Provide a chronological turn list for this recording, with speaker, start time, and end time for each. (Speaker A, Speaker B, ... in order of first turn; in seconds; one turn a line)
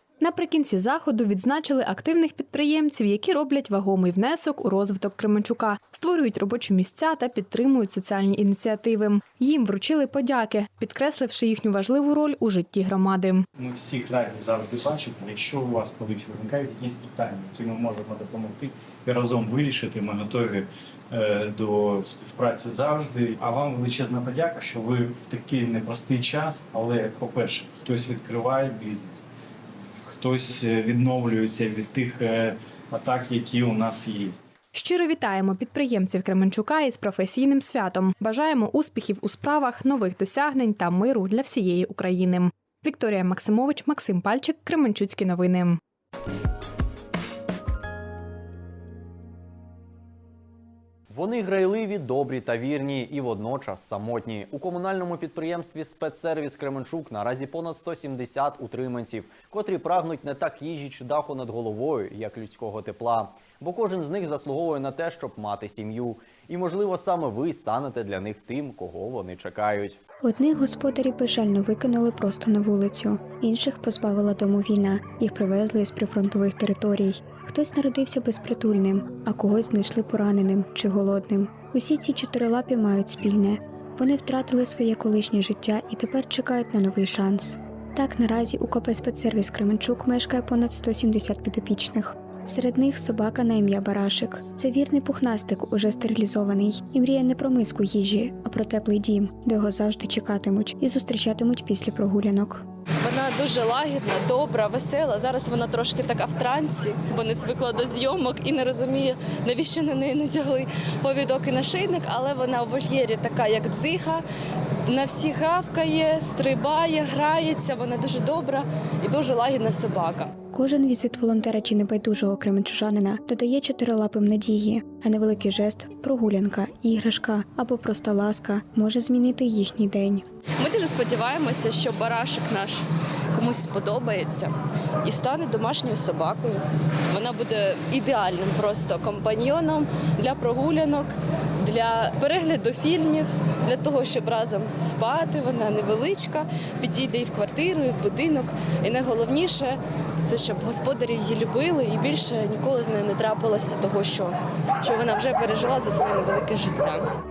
Speaker A: 0.2-13.4
Speaker B: 13.6-29.2
Speaker B: 30.1-34.4
Speaker A: 34.7-45.8
Speaker C: 51.1-70.0
Speaker D: 70.2-102.6
Speaker E: 103.0-114.2
Speaker E: 114.9-120.3
Speaker D: 120.5-130.2
Speaker E: 130.6-134.5
Speaker E: 135.0-157.0